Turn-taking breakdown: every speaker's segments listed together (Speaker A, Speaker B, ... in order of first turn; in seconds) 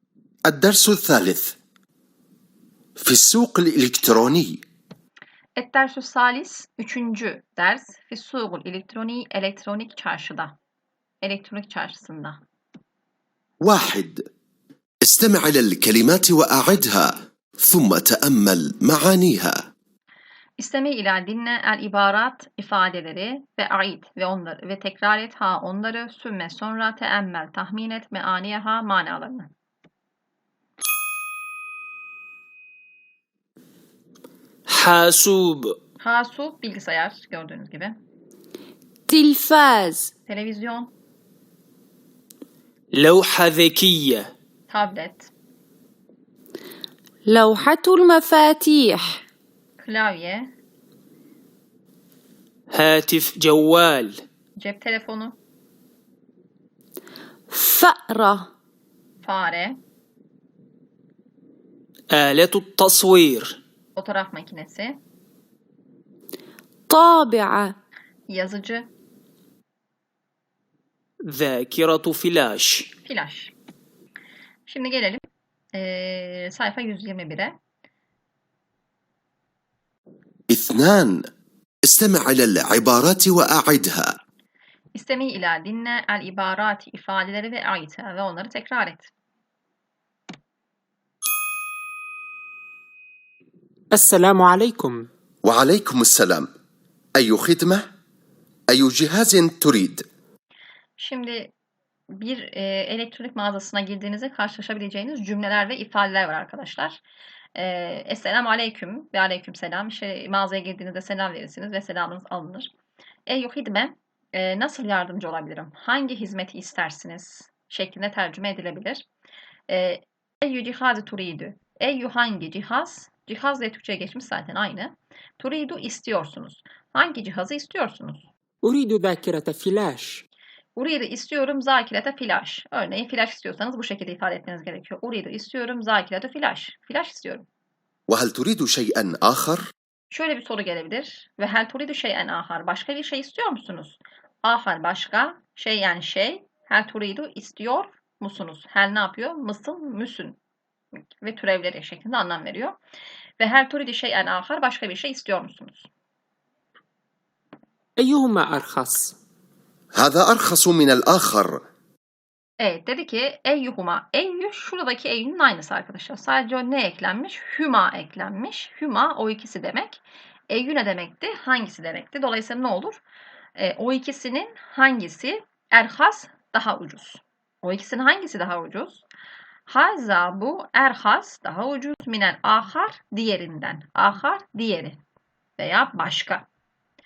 Speaker A: 0.5-1.6, 3.0-4.6, 13.6-14.2, 15.0-19.7, 80.5-81.2, 81.9-84.2, 95.4-96.5, 97.2-97.8, 98.7-100.0, 138.1-139.7, 159.9-161.6
Speaker B: 5.6-10.6, 11.2-12.4, 20.6-29.5, 36.0-38.0, 40.3-40.9, 44.7-45.3, 49.8-50.5, 54.6-55.4, 59.2-59.8, 64.0-65.0, 68.3-68.9, 73.0-73.5, 74.7-75.2, 75.7-77.5, 84.9-89.1, 101.0-101.5, 102.1-107.0, 107.6-112.7, 113.3-119.1, 119.7-128.3, 130.8-137.5, 140.1-150.4, 151.2-152.8, 153.4-155.9, 162.6-173.0, 173.6-179.1, 179.7-185.0, 185.6-186.5
Speaker C: 34.7-35.8, 42.9-44.3, 52.7-54.2, 62.1-63.6, 71.3-72.9
Speaker D: 39.1-40.1, 47.2-49.1, 57.5-58.5, 66.9-67.8
Speaker E: 93.9-95.1, 128.6-130.2, 158.0-159.2